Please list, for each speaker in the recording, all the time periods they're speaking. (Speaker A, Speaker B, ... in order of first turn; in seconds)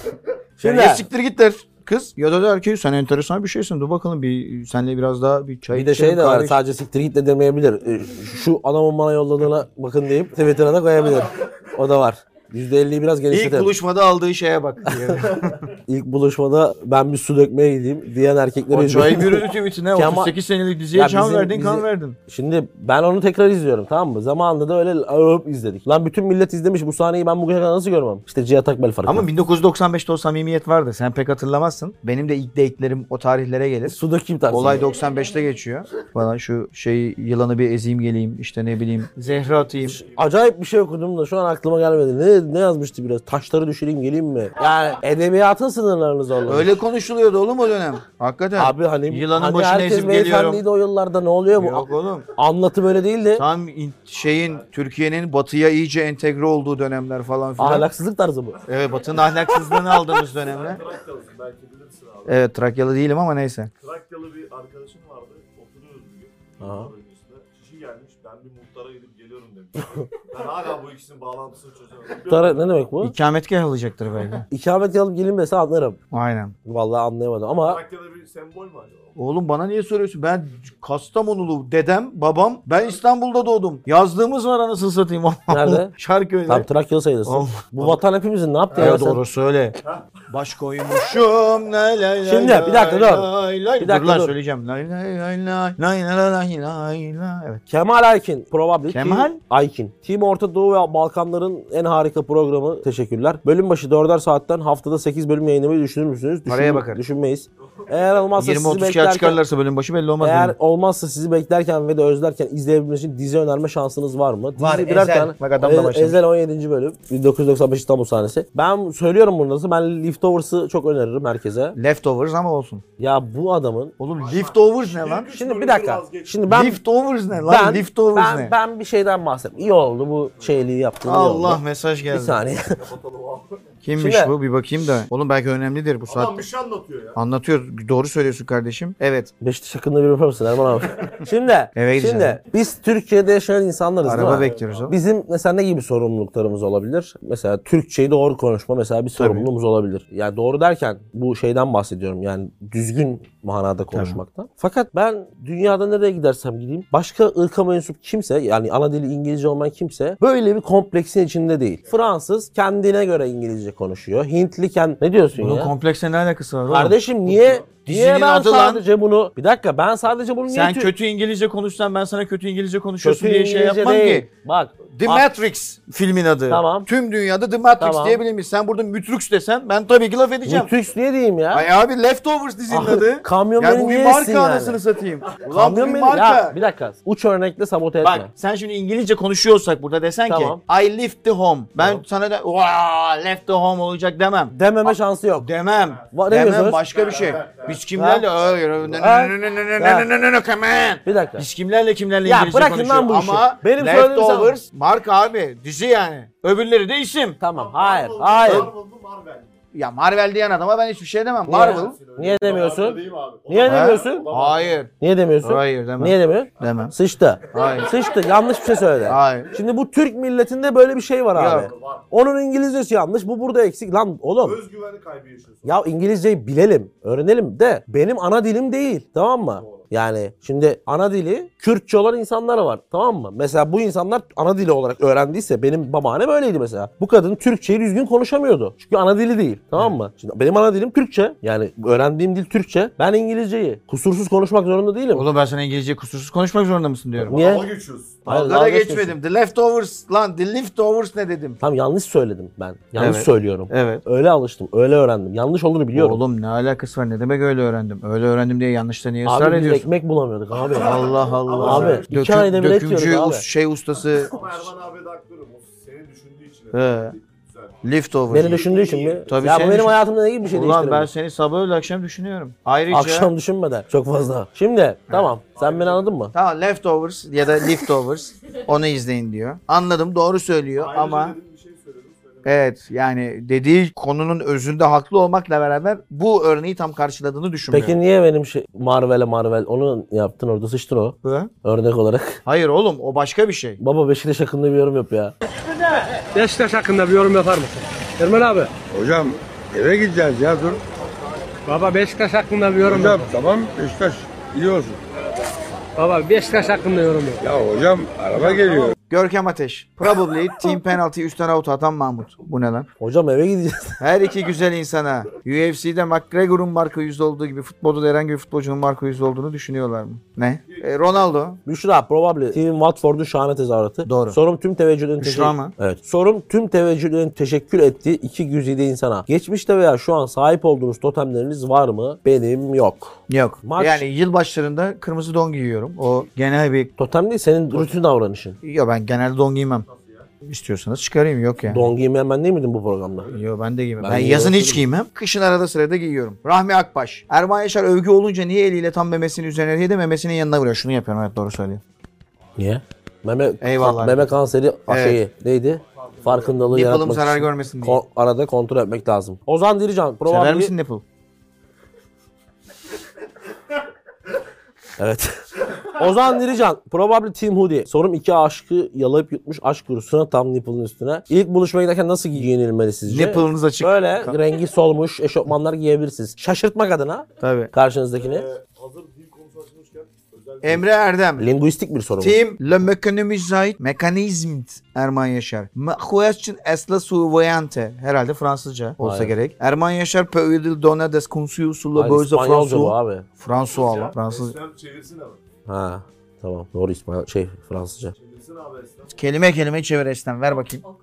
Speaker A: 0.6-1.1, 5.7-13.7, 14.9-15.3, 15.9-20.3, 20.9-29.3, 33.9-34.9, 39.9-46.8, 48.5-53.4, 57.6-58.6, 66.6-66.9, 72.3-73.1, 74.5-76.0, 76.7-77.8, 85.5-85.9, 86.5-89.2, 92.2-94.3, 97.7-109.4, 110.2-121.8, 123.0-123.9, 125.3-126.8, 127.3-132.8, 134.0-134.3, 139.4-165.7, 166.7-170.9, 173.0-175.3, 176.5-176.9, 177.8-178.2, 180.4-181.7, 182.7-184.8, 185.5-188.3, 190.3-190.6, 194.5-195.5, 196.1-196.8, 197.9-198.2, 198.8-200.1, 201.0-201.4, 202.2-204.6, 207.4-208.7, 211.5-214.3, 215.0-224.6, 225.6-245.2, 247.2-247.7, 248.2-249.1, 251.6-256.2, 259.2-263.4, 268.3-271.1, 272.9-276.3, 287.7-292.4, 293.8-295.3, 313.0-314.0, 321.6-334.0, 337.0-338.6, 341.7-343.3, 344.0-344.8, 352.6-360.7, 365.0-378.4, 381.4-382.4, 389.0-389.3, 391.9-393.3, 395.6-398.1
Speaker B: 0.6-6.6, 13.3-15.7, 18.7-22.2, 29.1-34.0, 34.5-40.0, 46.5-50.6, 51.5-52.3, 53.3-57.9, 58.6-60.8, 62.3-63.7, 73.0-74.5, 76.1-76.5, 79.2-86.7, 87.2-88.0, 88.7-89.7, 90.3-97.6, 98.9-99.4, 106.5-107.0, 108.4-110.5, 114.6-116.2, 121.7-122.8, 124.0-125.3, 126.5-128.5, 131.0-132.4, 133.8-136.4, 137.1-139.3, 141.7-142.4, 144.0-144.9, 149.2-149.5, 153.9-154.2, 165.4-168.8, 170.5-174.3, 174.9-180.7, 181.5-186.6, 188.0-207.4, 209.7-212.0, 213.6-214.9, 215.4-216.9, 217.5-217.9, 219.0-219.5, 221.3-221.7, 245.1-247.4, 248.2-251.6, 253.0-254.0, 255.9-259.9, 260.8-264.7, 266.7-267.1, 267.8-268.6, 269.3-273.3, 276.3-281.4, 282.4-288.0, 291.2-291.5, 292.4-293.8, 309.1-312.9, 314.0-321.6, 324.1-324.4, 325.2-325.7, 333.3-336.9, 338.6-339.9, 340.4-341.9, 343.3-351.8, 353.6-354.3, 354.9-355.2, 356.7-358.0, 360.2-361.0, 373.1-374.4, 377.4-377.7, 380.6-381.5, 382.2-394.6, 399.1-400.8
Speaker C: 39.2-40.3, 54.2-54.7, 60.4-62.4, 63.8-72.9, 77.6-79.1, 89.8-90.1, 107.8-108.3, 124.2-126.4, 129.5-130.6, 132.8-133.7, 136.1-137.2, 144.1-144.9, 161.8-162.1, 196.9-197.8, 207.5-209.6, 211.6-214.8, 216.6-216.9, 217.6-217.8, 221.5-222.1, 224.4-225.8, 229.5-229.8, 247.3-248.2, 260.6-262.1, 264.2-269.6, 275.5-276.1, 280.8-282.6, 301.0-301.8, 308.5-308.8, 320.7-321.2, 339.8-340.3, 355.9-356.6, 378.1-380.9, 393.5-395.4, 398.1-399.3
Speaker D: 296.3-298.7, 301.7-303.1, 306.0-307.4
Speaker E: 298.9-300.8, 302.8-305.0, 307.4-308.9